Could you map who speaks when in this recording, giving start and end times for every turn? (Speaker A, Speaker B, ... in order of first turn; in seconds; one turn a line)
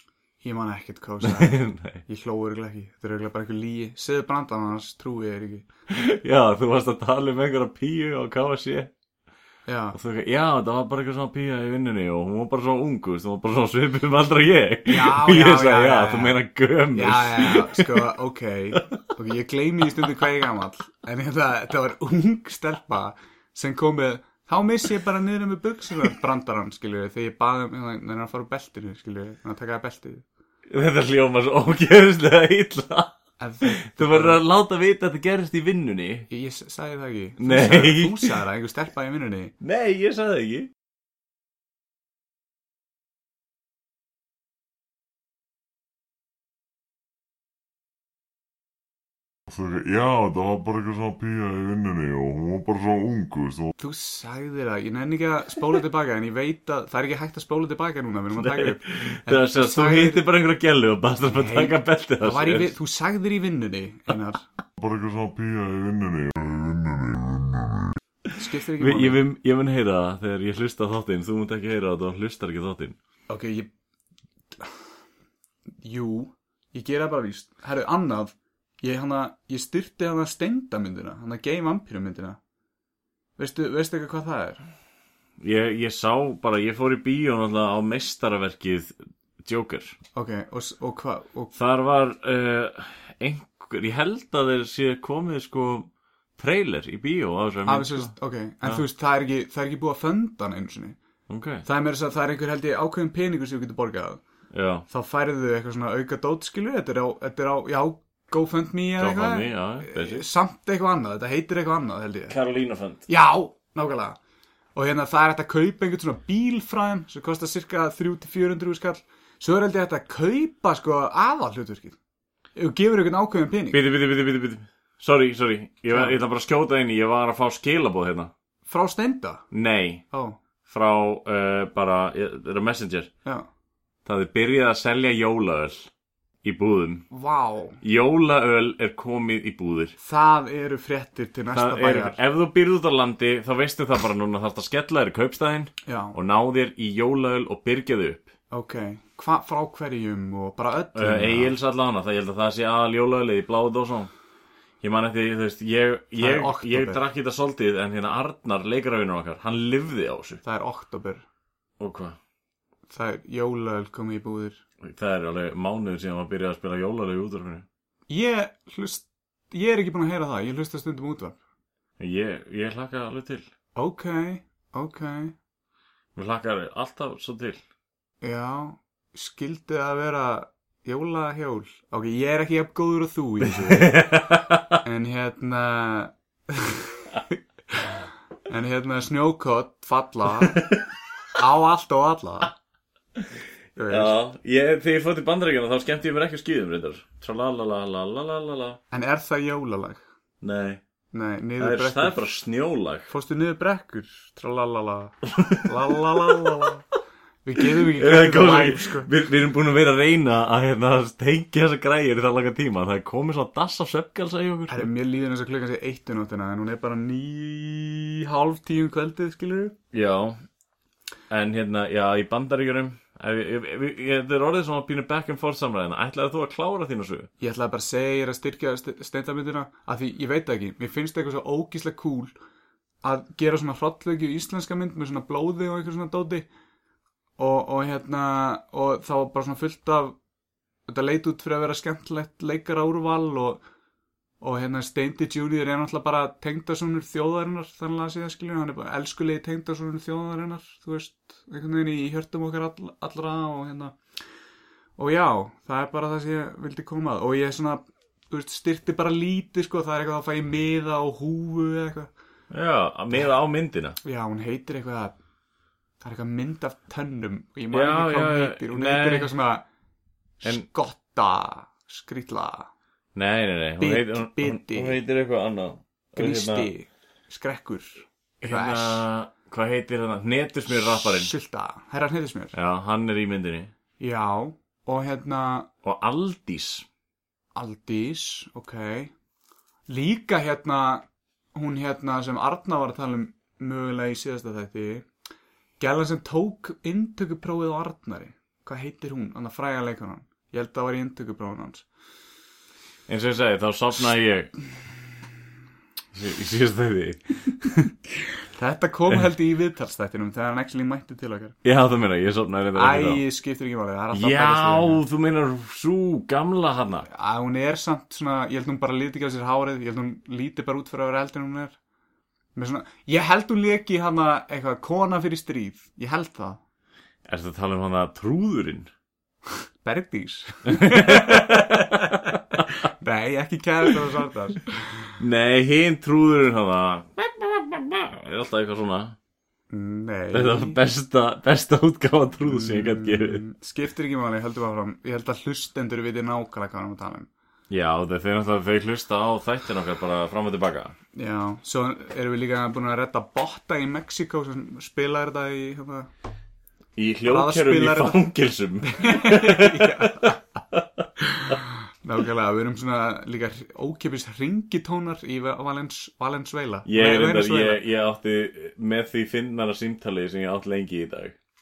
Speaker A: 0.4-5.7
Speaker B: 1.2-2.0
Speaker B: 5.9-8.9
Speaker A: 9.7-10.0
Speaker B: 9.9-18.0
Speaker A: 14.9-16.4
Speaker A: 16.9-30.2
Speaker B: 30.7-36.3
Speaker A: 33.4-34.4
Speaker A: 36.3-39.5
Speaker B: 37.4-38.4
Speaker B: 39.6-40.7
Speaker C: 49.5-53.7
Speaker A: 53.8-60.2
Speaker B: 58.4-62.7
Speaker A: 61.2-64.5
Speaker C: 64.8-68.0
Speaker A: 68.4-69.2
Speaker B: 68.8-73.0
Speaker A: 73.3-73.7
Speaker A: 74.5-74.8
Speaker A: 75.8-82.4
Speaker A: 83.4-84.7
Speaker B: 85.4-90.0
Speaker A: 90.2-91.5
Speaker B: 91.5-98.8
Speaker A: 97.7-101.0
Speaker B: 101.3-101.7
Speaker A: 101.6-104.2
Speaker B: 104.5-104.9
Speaker A: 104.9-112.3
Speaker B: 109.0-110.2
Speaker B: 112.3-113.0
Speaker A: 113.1-114.2
Speaker A: 114.8-122.0
Speaker A: 122.5-123.8
Speaker B: 123.7-128.3
Speaker A: 125.9-126.2
Speaker A: 128.7-129.4
Speaker B: 129.5-130.0
Speaker A: 130.1-130.4
Speaker B: 130.7-133.1
Speaker B: 134.1-135.9
Speaker B: 136.4-137.1
Speaker A: 137.1-137.8
Speaker B: 137.8-140.0
Speaker A: 140.0-142.2
Speaker B: 141.5-148.3
Speaker A: 145.8-146.2
Speaker A: 148.5-151.5
Speaker B: 150.9-154.1
Speaker B: 154.8-160.4
Speaker A: 156.2-157.0
Speaker A: 160.4-161.3
Speaker B: 161.8-162.2
Speaker A: 162.9-164.6
Speaker B: 164.8-167.7
Speaker A: 168.1-171.4
Speaker B: 172.0-173.5
Speaker A: 173.8-175.3
Speaker B: 176.2-177.6
Speaker A: 178.2-183.9
Speaker B: 183.7-184.8
Speaker A: 184.8-190.6
Speaker B: 190.5-190.9
Speaker A: 191.4-192.5
Speaker A: 193.8-194.1
Speaker B: 193.9-198.8
Speaker A: 198.9-200.0
Speaker B: 200.4-200.8
Speaker A: 201.1-202.2
Speaker B: 201.6-203.1
Speaker A: 203.1-206.8
Speaker B: 205.3-206.7
Speaker A: 207.4-209.1
Speaker B: 207.8-214.9
Speaker A: 214.7-219.8
Speaker B: 219.9-220.4
Speaker B: 221.3-227.3
Speaker A: 227.4-232.3
Speaker A: 233.0-236.5
Speaker A: 237.4-240.2
Speaker A: 240.9-243.6
Speaker A: 244.4-254.0
Speaker A: 255.0-262.1
Speaker B: 262.5-264.0
Speaker A: 264.0-265.2
Speaker A: 266.0-269.6
Speaker B: 267.7-269.3
Speaker A: 270.4-272.7
Speaker B: 273.1-276.7
Speaker A: 273.8-275.0
Speaker A: 276.2-279.1
Speaker B: 278.4-281.3
Speaker A: 280.7-282.6
Speaker B: 282.5-283.7
Speaker A: 284.0-285.7
Speaker B: 285.8-286.9
Speaker A: 287.6-289.1
Speaker A: 289.9-295.1
Speaker A: 295.8-301.9
Speaker B: 303.1-304.5
Speaker B: 306.1-307.8
Speaker A: 308.5-311.6
Speaker B: 311.6-313.2
Speaker A: 312.8-315.0
Speaker B: 314.1-317.1
Speaker A: 317.1-321.8
Speaker A: 322.6-326.6
Speaker B: 327.3-328.9
Speaker A: 329.8-334.7
Speaker B: 330.7-332.8
Speaker B: 335.2-339.2
Speaker A: 339.7-340.8
Speaker B: 340.3-343.4
Speaker A: 342.4-347.3
Speaker B: 347.7-351.0
Speaker A: 351.1-356.1
Speaker B: 357.0-361.5
Speaker A: 357.3-358.2
Speaker A: 358.8-360.4
Speaker A: 361.2-367.8
Speaker B: 366.9-371.4